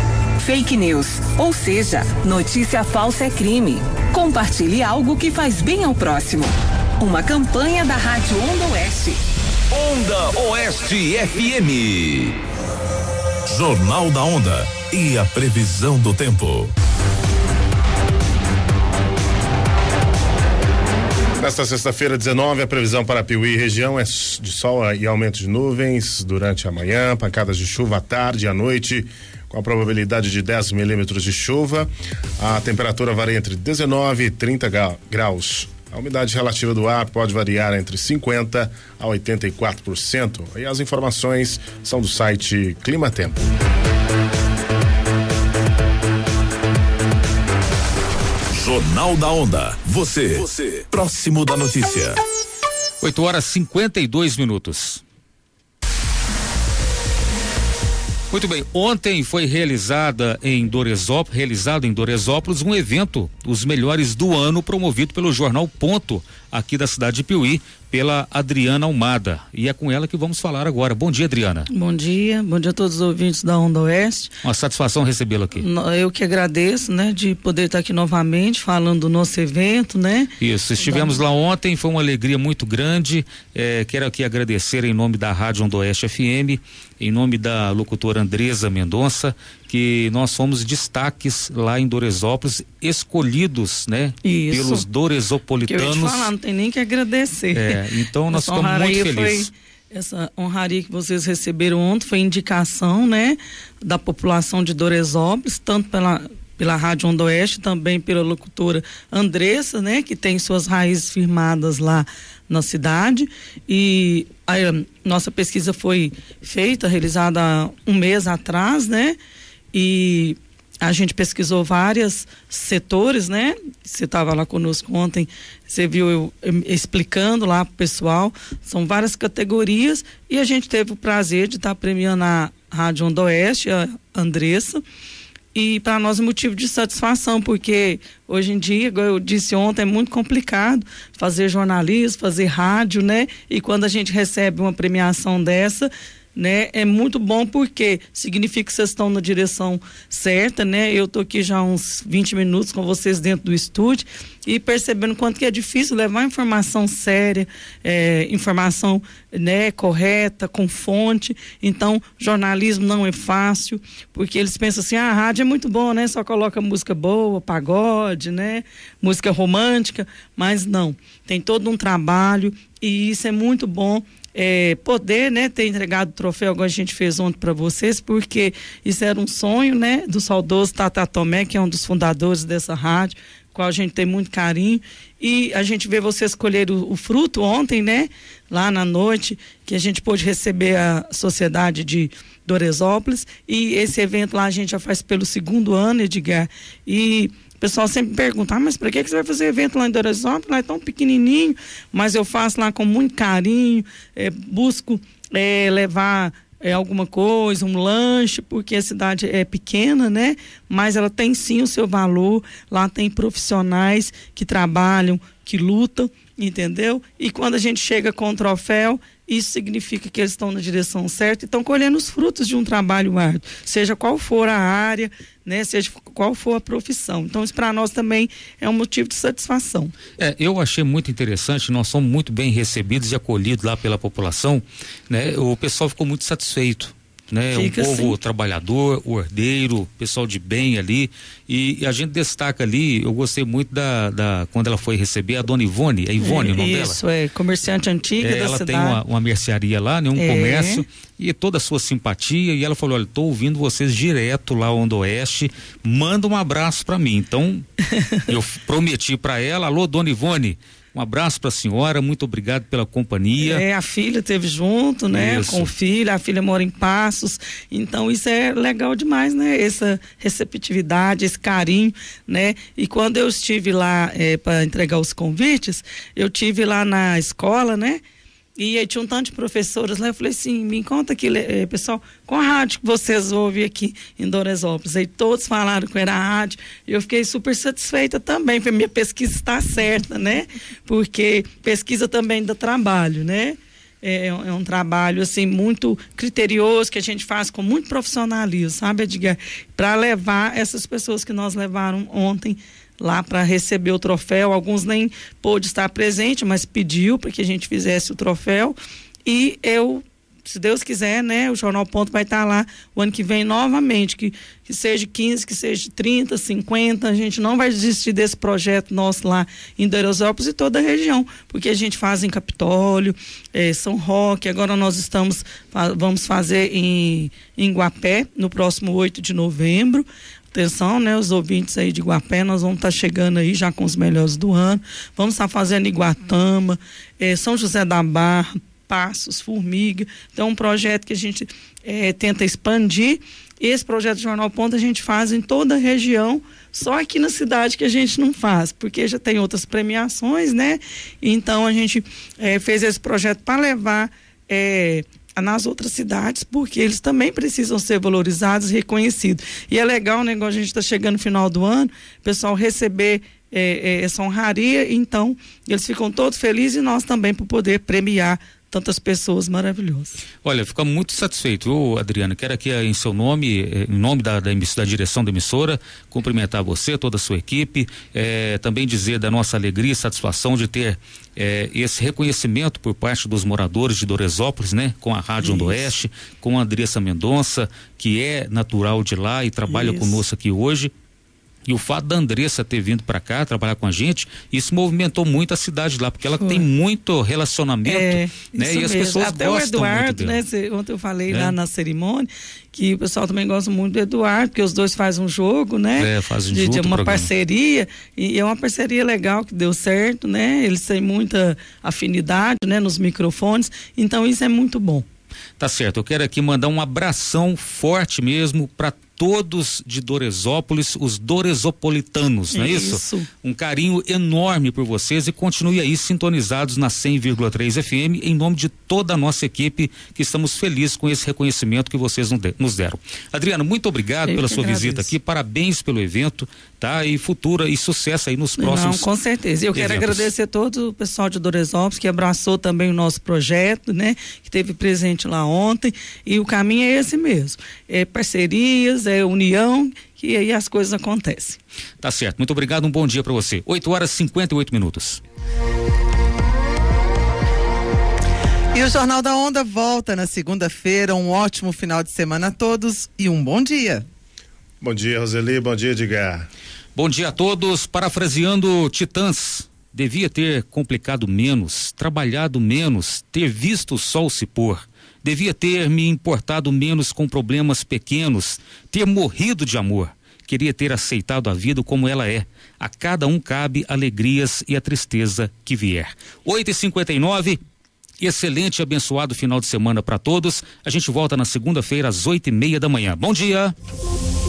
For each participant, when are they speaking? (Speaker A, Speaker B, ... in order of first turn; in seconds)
Speaker A: 0.4-9.2
Speaker B: 9.7-12.3, 13.4-16.7, 48.5-52.2
Speaker C: 21.4-43.5, 464.8-466.5
Speaker D: 53.0-55.0, 58.3-71.7, 74.4-75.7, 80.4-96.3, 97.5-99.5, 230.2-247.0, 248.2-257.6, 258.3-263.6, 265.1-265.7, 370.4-390.9, 391.6-400.4, 401.3-401.6, 406.0-407.3, 415.6-439.1, 439.7-440.3, 452.0-455.2, 466.9-487.6, 488.2-493.7
Speaker E: 71.7-74.3, 75.5-81.2, 94.2-94.8, 95.7-119.2, 119.7-134.8, 135.5-229.9, 237.5-238.2, 246.2-249.0, 250.2-250.8, 263.4-278.0, 278.6-370.2, 385.4-385.9, 389.7-390.2, 396.4-396.7, 397.8-415.1, 422.5-423.3, 434.3-435.1, 438.6-451.6
Speaker F: 458.7-464.0